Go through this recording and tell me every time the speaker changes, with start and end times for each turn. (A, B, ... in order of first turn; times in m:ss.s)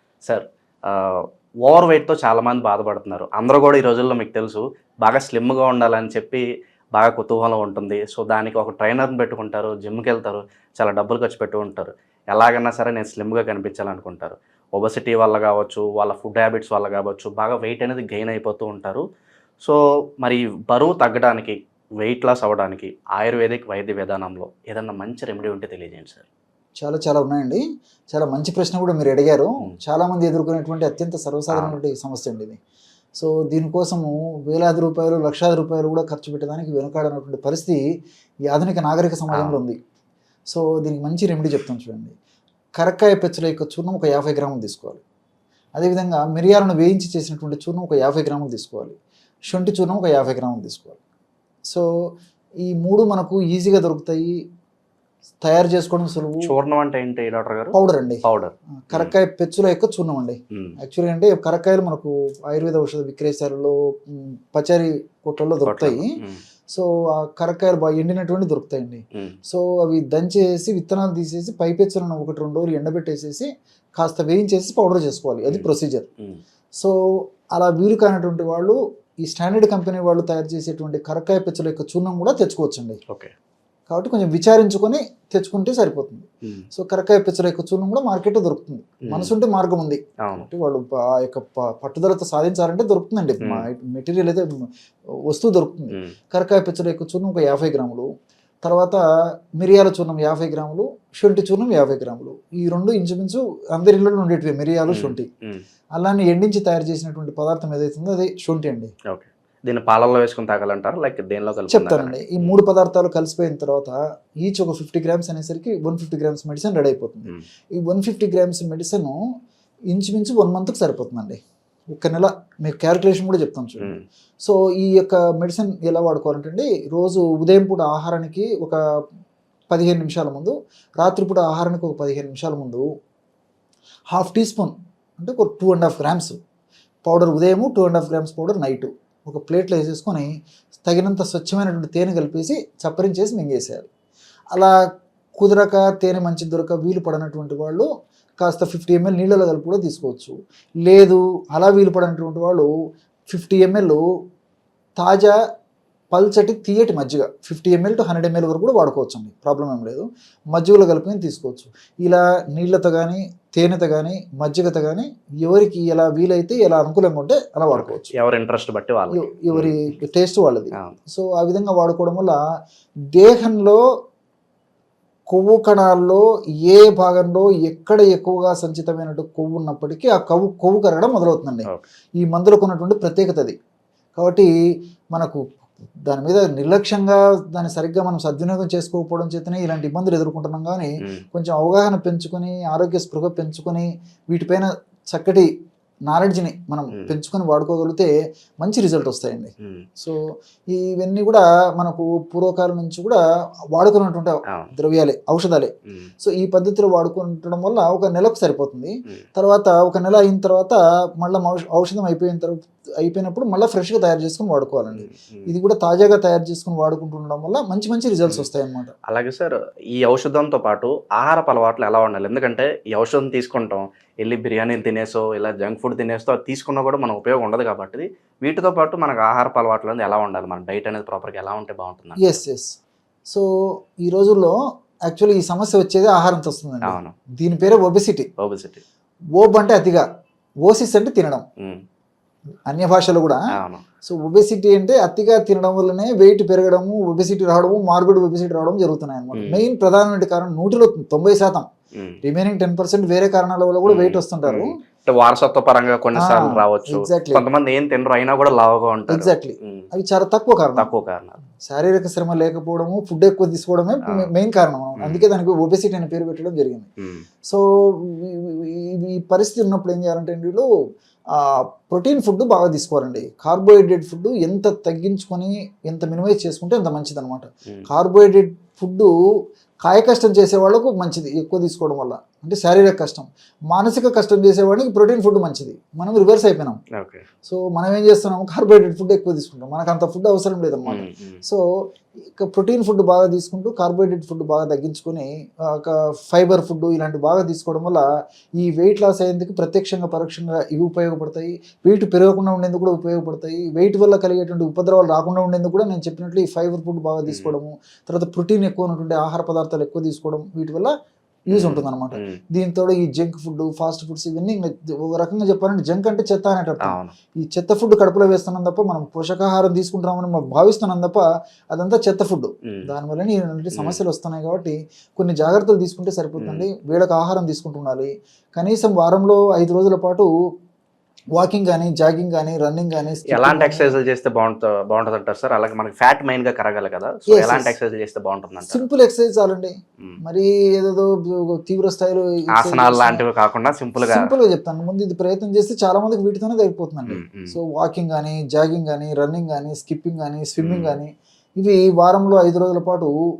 0:00.2-0:06.4 A
0:07.0-0:19.0 A
0:19.6-0:26.3 A
0:26.8-0:32.6 B
0:31.5-0:31.8 A
0:33.2-0:37.8 B
0:38.5-0:39.8 B
0:39.3-0:39.6 A
0:40.5-0:42.1 B
0:42.8-0:45.0 B
0:45.8-0:49.0 B
0:49.5-0:51.0 B
0:52.6-0:54.4 B
0:55.4-0:56.5 B
0:56.4-0:59.2 A
0:57.7-0:58.2 B
0:58.9-1:06.2 B
1:05.6-1:06.4 A
1:06.7-1:16.1 B
1:17.5-1:23.0 B
1:23.9-1:34.5 B
1:29.0-1:29.3 A
1:35.3-1:38.1 B
1:38.6-1:39.0 B
1:39.6-1:45.3 B
1:44.9-1:45.6 A
1:46.0-1:48.9 B
1:49.1-1:52.6 A
1:51.7-1:59.2 B
1:59.9-2:01.4 B
2:01.9-2:08.8 B
2:03.8-2:04.0 A
2:09.7-2:12.8 B
2:14.1-2:16.4 B
2:17.0-2:20.3 B
2:20.8-2:23.9 B
2:25.4-2:27.9 B
2:28.4-2:32.7 B
2:33.3-2:34.0 B
2:35.0-2:35.4 B
2:36.1-2:48.1 B
2:47.7-2:49.8 A
2:49.1-2:52.4 B
2:53.1-2:53.8 B
2:55.3-3:01.7 B
3:02.2-3:03.6 B
3:04.2-3:04.5 B
3:05.1-3:05.4 B
3:06.1-3:15.5 B
3:16.1-3:23.2 B
3:19.6-3:19.9 A
3:23.7-3:38.9 B
3:35.0-3:35.4 A
3:39.1-3:52.3 A
3:52.2-3:52.7 B
3:54.0-3:54.6 B
3:55.1-3:58.3 B
3:56.8-3:57.2 A
3:58.4-3:58.8 A
3:59.4-4:00.1 B
4:00.6-4:01.5 B
4:02.7-4:03.4 B
4:03.6-4:03.8 A
4:04.0-4:11.7 B
4:09.3-4:09.6 A
4:12.2-4:14.8 B
4:13.9-4:19.9 A
4:16.2-4:17.4 B
4:19.1-4:20.9 B
4:20.8-4:21.4 A
4:21.6-4:26.9 B
4:25.0-4:25.2 A
4:27.5-4:30.6 B
4:31.4-4:39.1 B
4:39.8-4:46.8 B
4:47.0-4:47.2 A
4:47.4-4:51.6 B
4:50.9-4:51.4 A
4:52.4-4:58.0 B
4:58.6-5:10.9 B
5:07.3-5:07.5 A
5:11.5-5:30.3 B
5:11.5-5:12.4 A
5:16.8-5:17.1 A
5:23.7-5:24.0 A
5:26.4-5:26.7 A
5:31.4-5:33.9 B
5:33.3-5:38.8 A
5:37.3-5:37.7 B
5:38.7-5:43.2 B
5:42.5-5:44.2 A
5:44.0-5:53.1 B
5:47.1-5:47.6 A
5:50.6-5:51.0 A